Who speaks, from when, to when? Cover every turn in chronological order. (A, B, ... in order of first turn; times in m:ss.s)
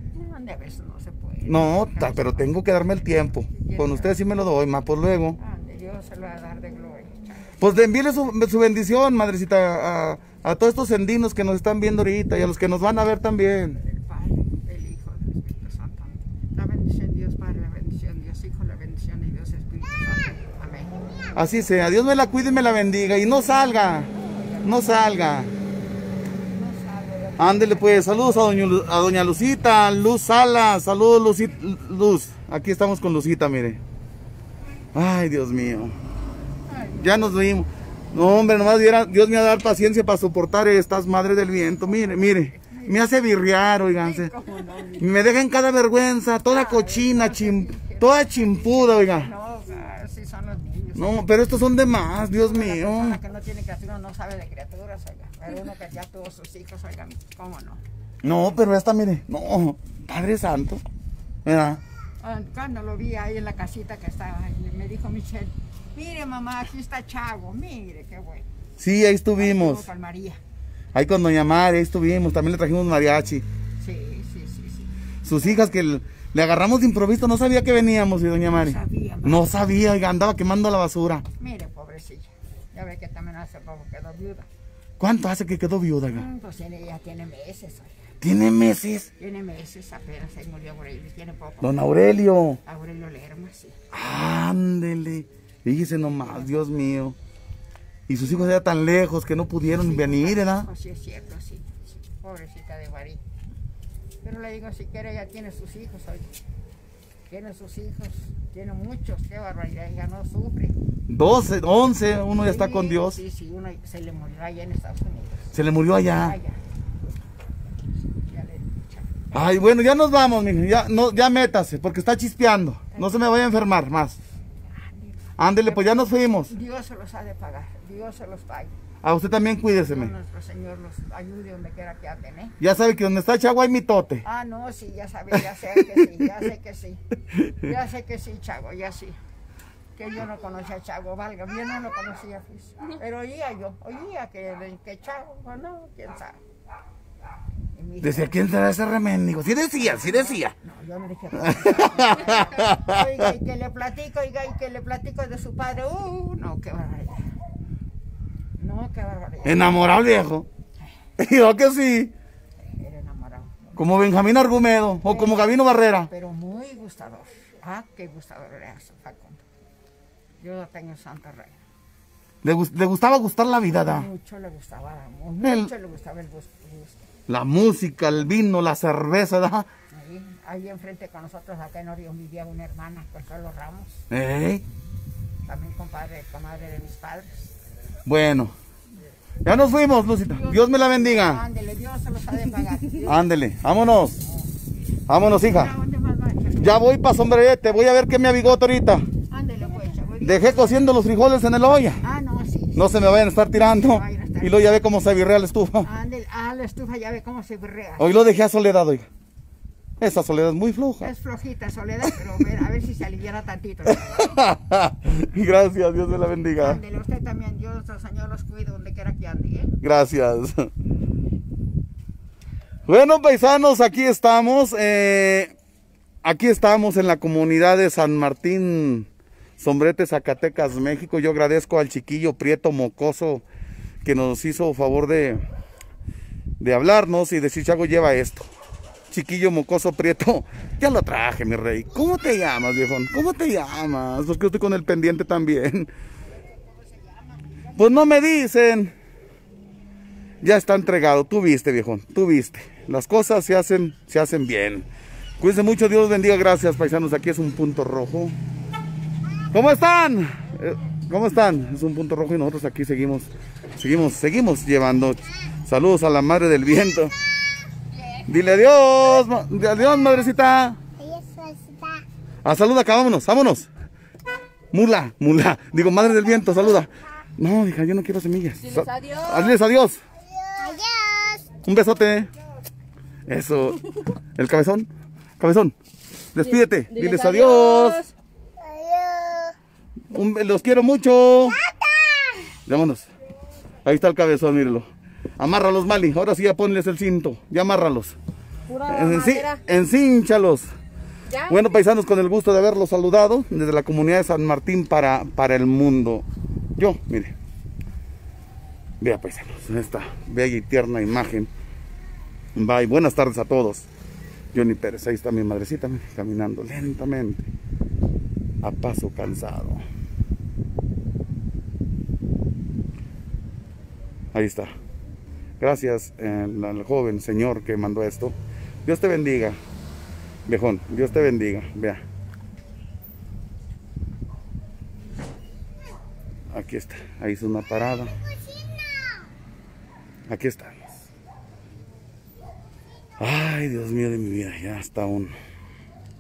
0:00.1-0:04.2 A
0:01.4-0:05.4 B
0:05.4-0:07.6 A
0:07.6-0:13.8 B
0:13.8-0:21.0 A
0:21.3-0:24.1 B
0:23.7-0:25.3 A
0:24.6-0:25.5 B
0:26.5-0:28.5 A
0:27.4-0:33.8 B
0:34.9-0:35.9 B
0:36.7-0:37.4 A
0:37.0-0:44.3 B
0:41.5-0:43.1 A
0:43.9-0:45.1 A
0:45.0-0:49.3 B
0:46.4-0:51.3 A
0:51.0-0:53.2 B
0:52.3-0:57.8 A
0:58.2-1:00.8 B
1:01.4-1:01.8 B
1:02.2-1:08.5 A
1:08.8-1:09.9 B
1:09.4-1:10.4 A
1:10.9-1:13.4 B
1:13.8-1:14.9 A
1:15.2-1:21.2 B
1:18.5-1:19.5 A
1:21.4-1:24.5 A
1:25.0-1:26.3 B
1:26.1-1:28.0 A
1:28.2-1:29.1 B
1:29.2-1:31.8 A
1:31.6-1:32.6 B
1:32.6-1:33.8 A
1:33.9-1:37.2 B
1:38.1-1:40.7 B
1:39.6-1:43.2 A
1:44.2-1:46.3 A
1:47.3-1:50.8 A
1:51.1-1:53.2 B
1:52.3-1:56.6 A
1:55.5-1:56.4 B
1:58.1-1:59.4 A
1:59.3-2:04.2 B
2:02.9-2:03.2 A
2:04.7-2:08.7 A
2:05.4-2:06.5 B
2:09.0-2:10.1 B
2:09.8-2:12.6 A
2:12.6-2:14.2 B
2:14.2-2:17.0 A
2:15.8-2:16.1 B
2:17.4-2:17.6 B
2:17.6-2:19.2 A
2:20.0-2:26.4 A
2:27.7-2:28.4 A
2:28.0-2:30.5 B
2:29.8-2:37.3 A
2:31.3-2:33.3 B
2:38.6-2:39.8 A
2:39.4-2:40.5 B
2:41.2-2:42.1 B
2:42.6-2:43.8 A
2:43.8-2:46.1 B
2:45.0-2:49.4 A
2:50.4-2:51.6 A
2:52.4-2:54.1 B
2:53.8-2:57.1 A
2:55.4-2:55.7 B
2:57.3-2:59.7 B
2:59.9-3:04.0 A
3:04.1-3:04.6 B
3:05.4-3:07.5 A
3:08.0-3:08.5 B
3:09.4-3:11.4 B
3:10.2-3:13.1 A
3:13.0-3:14.2 B
3:14.2-3:14.5 A
3:15.1-3:15.7 B
3:15.2-3:18.6 A
3:16.6-3:19.1 B
3:19.3-3:21.0 A
3:20.2-3:22.0 B
3:22.0-3:24.8 A
3:22.8-3:25.9 B
3:25.8-3:28.2 A
3:28.0-3:29.1 B
3:30.0-3:31.1 B
3:31.0-3:34.4 A
3:33.8-3:36.8 B
3:36.6-3:39.8 A
3:39.8-3:40.7 B
3:42.9-3:45.5 B
3:46.2-3:49.1 B
3:49.6-3:53.4 B
3:54.0-3:55.4 B
3:56.6-3:58.4 B
3:59.1-4:05.9 B
4:07.7-4:08.9 B
4:10.4-4:14.8 B
4:15.4-4:18.3 B
4:19.5-4:27.1 B
4:28.2-4:30.8 B
4:31.0-4:32.0 C
4:32.4-4:33.7 B
4:34.7-4:40.0 B
4:38.6-4:39.5 D
4:40.4-4:41.5 C
4:41.6-4:42.3 B
4:43.3-4:43.8 B
4:44.3-4:45.7 B
4:46.3-4:48.0 B
4:46.4-4:48.1 D
4:48.6-4:49.5 C
4:50.1-4:51.6 B
4:51.7-4:52.4 C
4:52.6-4:53.1 B
4:53.8-4:54.8 B
4:55.4-4:58.1 B
4:58.7-4:59.6 D
4:58.8-5:00.6 B
5:01.3-5:01.6 D
5:01.5-5:06.2 B
5:06.8-5:07.3 B
5:09.0-5:11.5 B
5:12.6-5:13.9 B
5:14.5-5:17.5 B
5:18.6-5:19.8 B
5:24.3-5:24.7 B
5:25.6-5:29.6 B
5:30.5-5:32.0 B
5:36.5-5:38.2 B
5:40.3-5:40.8 B
5:43.2-5:45.3 B